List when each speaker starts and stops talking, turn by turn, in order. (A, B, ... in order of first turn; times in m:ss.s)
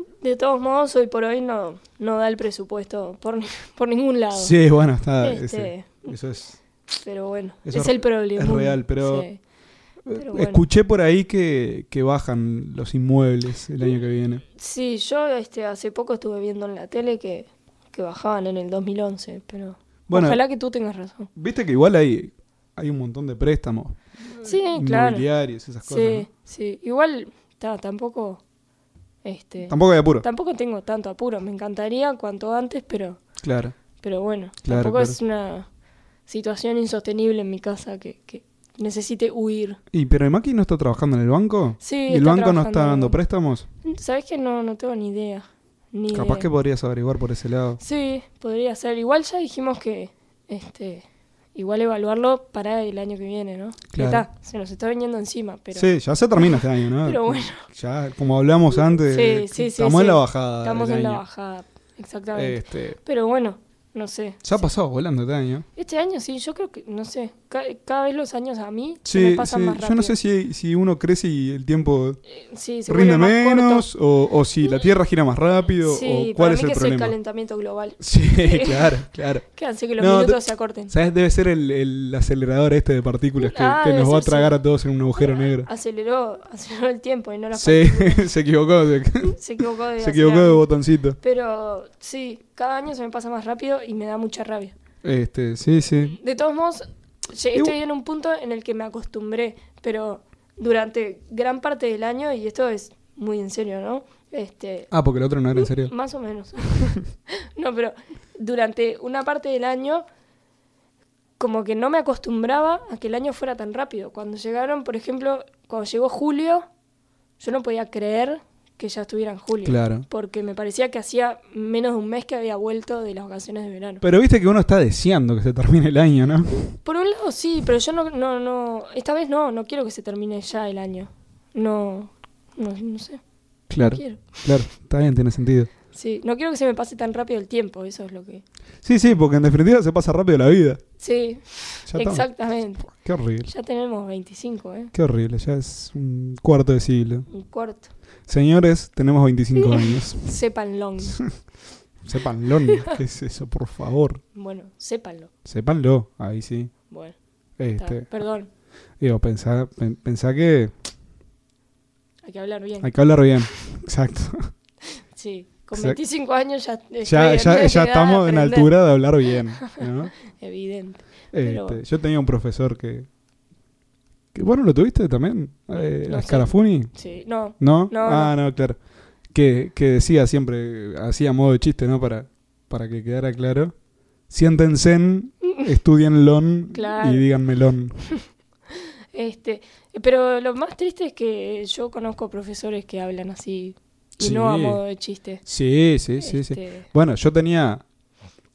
0:00.2-0:04.6 A
0:04.3-0:06.6 B
0:05.2-0:06.2 A
0:06.9-0:09.4 A
0:07.6-0:09.3 B
0:10.0-0:14.4 B
0:10.1-0:10.6 A
0:14.6-0:21.3 A
0:20.1-0:20.4 B
0:21.4-0:26.3 B
0:24.4-0:25.2 A
0:25.8-0:28.4 A
0:29.2-0:33.2 A
0:29.7-0:30.2 B
0:33.4-0:33.8 B
0:34.0-0:35.7 A
0:34.6-0:35.2 B
0:36.2-0:39.8 A
0:39.9-0:43.6 B
0:41.8-0:43.2 A
0:43.8-0:46.5 A
0:46.1-0:47.8 B
0:47.8-0:57.6 A
0:53.9-0:54.2 B
0:55.7-1:01.2 B
0:59.0-1:04.4 A
1:02.3-1:03.0 B
1:04.4-1:05.6 B
1:05.8-1:10.2 A
1:09.0-1:12.2 B
1:12.3-1:13.9 A
1:12.9-1:17.2 B
1:15.8-1:18.9 A
1:18.0-1:19.5 B
1:19.5-1:20.9 A
1:20.0-1:25.7 B
1:23.4-1:24.6 A
1:25.2-1:28.3 A
1:27.5-1:31.2 B
1:29.2-1:30.7 A
1:31.2-1:34.7 A
1:35.0-1:36.2 B
1:36.2-1:44.9 A
1:44.9-1:45.9 B
1:45.5-1:50.0 A
1:51.4-1:56.6 A
1:57.4-2:04.0 A
1:59.6-2:00.0 B
2:04.0-2:06.8 B
2:06.8-2:13.2 A
2:13.7-2:15.7 B
2:13.9-2:14.5 A
2:15.9-2:18.4 A
2:18.8-2:20.8 B
2:21.0-2:22.9 A
2:21.9-2:23.5 B
2:23.4-2:24.9 A
2:24.9-2:27.3 B
2:27.3-2:27.9 A
2:28.3-2:30.3 B
2:29.6-2:31.2 A
2:32.0-2:34.2 B
2:34.3-2:35.3 A
2:35.4-2:36.7 B
2:36.9-2:37.1 A
2:37.6-2:38.1 B
2:37.8-2:38.5 A
2:39.0-2:40.7 B
2:42.2-2:42.9 A
2:42.8-2:44.5 B
2:45.1-2:48.7 A
2:45.7-2:46.0 B
2:47.0-2:50.2 B
2:49.2-2:51.8 A
2:51.3-2:53.1 B
2:54.3-2:56.9 B
2:56.1-2:58.3 A
2:57.5-2:58.8 B
2:59.3-3:03.7 B
3:04.3-3:08.1 B
3:06.7-3:07.3 A
3:09.1-3:15.4 A
3:14.2-3:14.9 B
3:15.4-3:17.8 B
3:16.2-3:16.9 A